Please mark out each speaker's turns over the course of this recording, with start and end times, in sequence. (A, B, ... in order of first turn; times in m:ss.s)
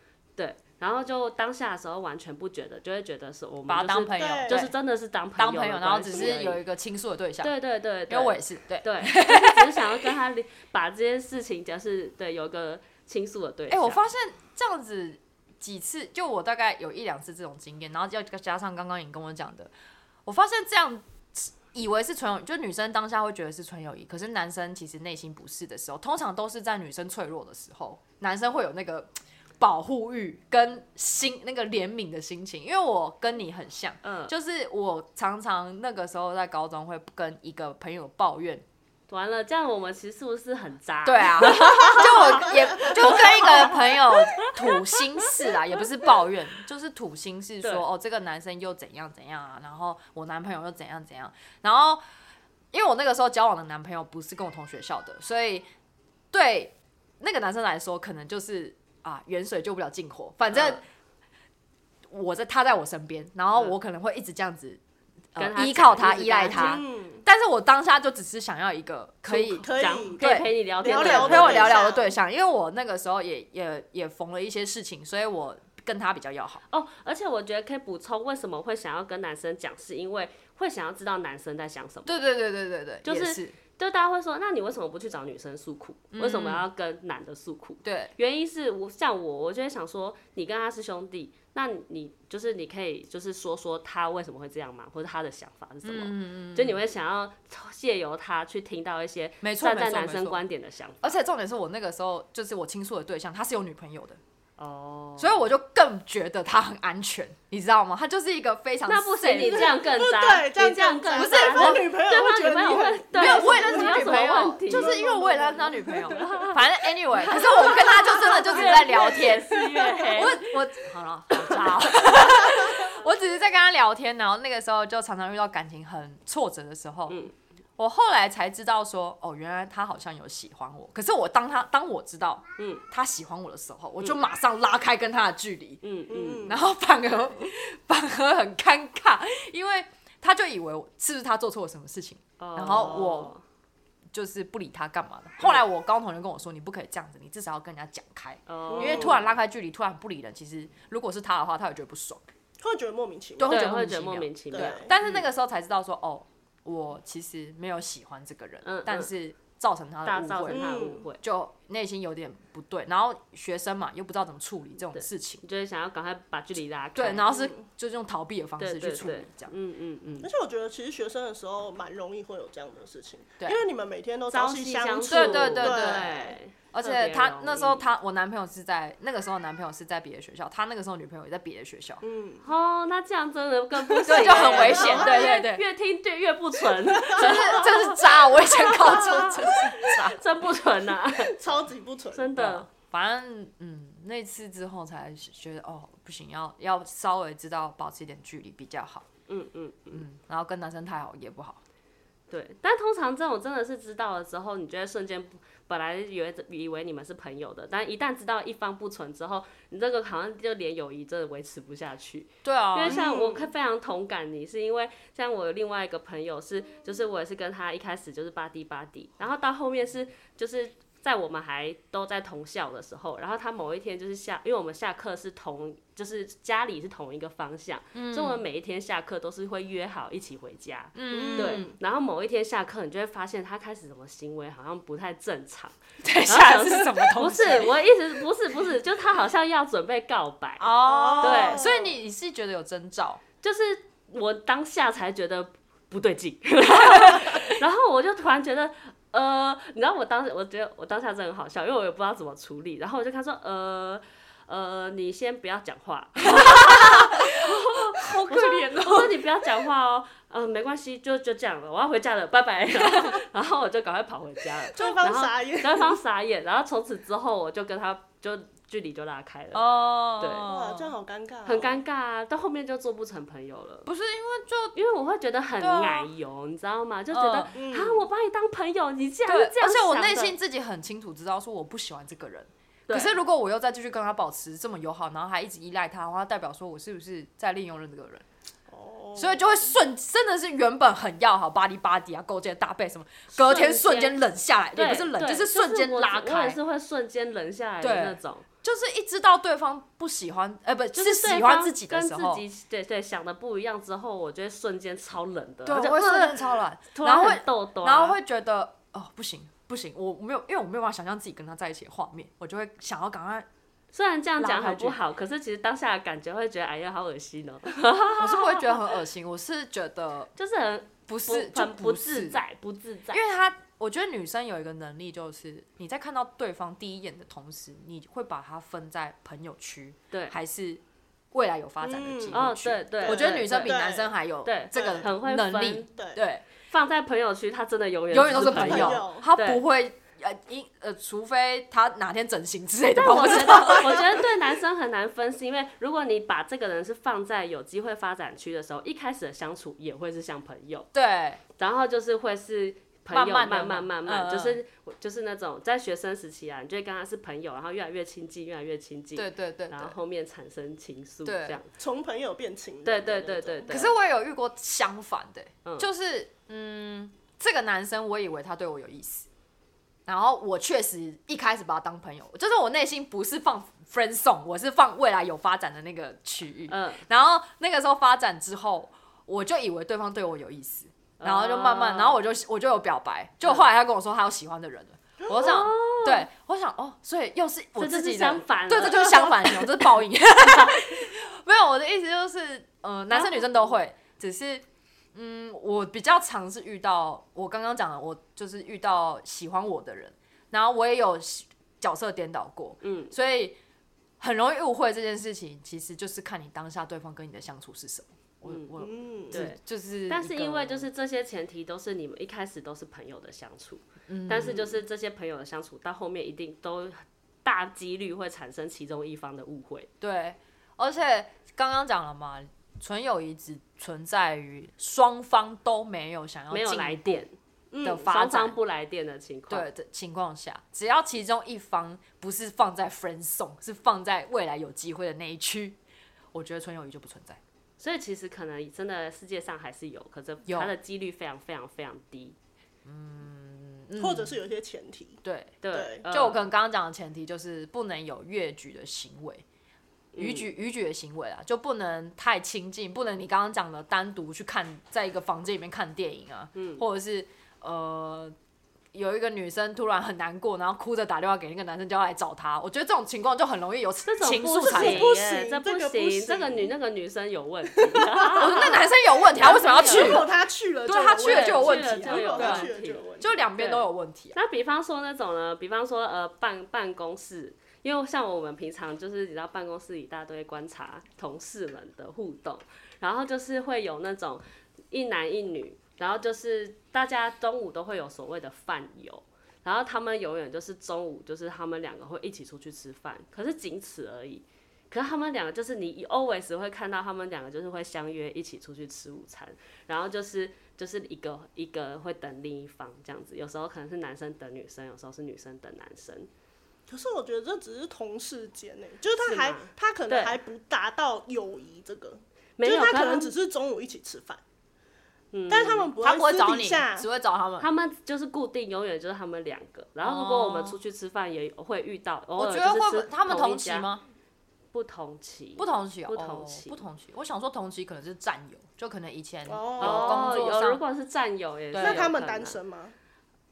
0:00.4-0:06.6 A
0:03.7-0:04.7 B
0:04.2-0:04.7 C
0:05.4-0:07.5 B
0:07.4-0:14.0 A
0:08.1-0:10.1 B
0:13.7-0:19.7 B
0:20.2-0:38.6 B
0:34.0-0:34.3 A
0:39.1-0:45.5 A
0:41.0-0:52.0 B
0:52.7-0:55.7 B
0:56.3-1:00.8 B
1:00.5-1:00.8 A
1:02.1-1:04.8 B
1:05.3-1:16.6 B
1:05.4-1:06.8 A
1:06.5-1:07.2 C
1:09.2-1:10.2 C
1:09.7-1:11.8 A
1:10.8-1:12.1 C
1:16.7-1:22.2 A
1:22.0-1:23.6 B
1:23.0-1:41.2 A
1:26.1-1:26.6 B
1:27.8-1:28.1 B
1:35.8-1:36.8 B
1:39.4-1:40.4 B
1:41.0-1:44.2 B
1:44.6-1:45.5 A
1:45.2-1:49.8 B
1:48.8-1:55.0 A
1:49.4-1:56.5 C
1:51.1-1:51.9 B
1:53.1-2:07.2 B
1:56.1-1:56.6 A
1:57.2-2:00.5 A
1:57.3-2:00.1 C
2:01.5-2:01.7 A
2:07.1-2:07.3 A
2:07.8-2:15.8 B
2:12.6-2:12.8 A
2:15.8-2:16.5 A
2:16.1-2:16.6 C
2:16.4-2:23.3 B
2:22.4-2:23.4 A
2:24.1-2:32.2 B
2:28.5-2:29.2 A
2:28.7-2:29.2 C
2:32.6-2:33.6 C
2:33.4-2:45.4 B
2:33.5-2:35.2 A
2:34.5-2:34.9 C
2:38.6-2:39.1 A
2:40.0-2:41.2 A
2:40.5-2:41.0 C
2:44.9-2:47.3 A
2:47.0-2:49.5 B
2:47.3-2:47.6 C
2:48.6-2:50.3 A
2:50.2-2:56.4 C
2:54.3-2:57.8 A
2:55.1-2:56.2 B
2:56.7-3:02.0 B
3:02.0-3:02.4 C
3:02.4-3:11.4 A
3:03.9-3:05.2 C
3:04.0-3:05.6 B
3:06.9-3:07.7 C
3:07.1-3:10.2 B
3:08.8-3:09.7 C
3:11.2-3:12.3 C
3:12.1-3:12.7 A
3:12.4-3:19.1 B
3:19.3-3:20.0 A
3:19.9-3:21.6 B
3:22.3-3:55.7 A
3:32.4-3:33.0 B
3:32.9-3:33.5 C
3:47.9-3:48.4 B
3:50.9-3:51.7 B
3:51.1-3:51.7 C
3:56.0-3:57.8 B
3:56.2-4:01.7 A
4:00.6-4:03.2 B
4:00.8-4:01.9 C
4:03.4-4:29.6 A
4:06.8-4:07.4 B
4:16.2-4:19.2 B
4:22.9-4:23.2 B
4:24.7-4:26.0 C
4:29.5-4:30.9 B
4:30.2-4:30.5 A
4:30.4-4:31.8 C
4:31.4-4:33.9 A
4:33.8-4:34.8 B
4:34.7-4:40.4 A
4:35.6-4:36.1 B
4:37.1-4:37.5 B
4:37.5-4:38.1 C
4:39.3-4:48.2 B
4:42.9-4:43.1 A
4:48.7-4:49.6 C
4:49.2-4:56.6 B
4:53.3-4:54.2 A
4:54.7-4:58.4 A
4:57.8-5:02.4 B
5:00.9-5:08.2 A
5:05.6-5:13.5 B
5:13.9-5:18.7 A
5:14.4-5:15.0 B
5:18.2-5:20.3 B
5:20.4-5:23.2 A
5:21.1-5:22.4 B
5:23.1-5:36.4 B
5:31.8-5:32.5 C
5:32.3-5:33.8 A
5:33.0-5:34.1 C
5:34.4-5:35.9 A
5:34.7-5:35.1 C
5:36.0-5:36.2 C
5:36.7-5:39.6 A
5:38.1-5:44.2 B
5:38.3-5:39.3 C
5:43.0-5:50.9 A
5:50.9-5:51.4 B
5:51.6-6:01.7 A
5:53.1-5:54.6 B
5:59.2-5:59.9 B
6:01.2-6:01.6 B
6:01.8-6:03.8 C
6:02.8-6:03.9 A
6:03.7-6:09.3 B
6:10.1-6:43.6 B
6:16.7-6:17.0 A
6:21.2-6:22.2 A
6:25.3-6:26.3 A
6:27.8-6:29.9 A
6:33.1-6:33.6 A
6:42.8-6:43.1 A
6:44.2-6:50.9 B
6:48.4-6:48.7 A
6:48.8-6:49.4 C
6:49.3-6:59.9 A
6:54.1-6:54.7 B
7:00.0-7:07.2 B
7:06.5-7:09.6 A
7:07.8-7:08.6 B
7:09.5-7:15.8 B
7:16.3-7:17.4 B
7:17.8-7:22.4 A
7:20.4-7:20.7 B
7:22.8-7:24.4 B
7:24.0-7:26.0 C
7:25.2-7:29.4 B
7:25.6-7:26.4 A
7:30.1-7:30.5 A
7:30.2-7:38.3 B
7:36.5-7:36.8 A
7:38.9-7:45.1 B
7:44.0-7:48.8 A
7:44.5-7:46.7 C
7:47.8-7:53.3 C
7:48.3-7:50.3 B
7:49.4-7:50.3 A
7:50.8-7:54.4 B
7:51.2-8:26.3 A
8:26.9-8:34.4 C
8:29.2-8:30.4 A
8:32.6-8:33.3 A
8:35.3-8:35.9 A
8:35.5-8:37.1 C
8:36.0-8:37.7 B
8:37.6-8:43.9 A
8:40.0-8:40.8 B
8:42.4-8:44.0 B
8:44.7-8:46.8 A
8:45.6-8:50.8 B
8:49.5-8:50.5 C
8:49.8-8:52.6 A
8:51.7-8:52.1 B
8:51.8-8:52.9 C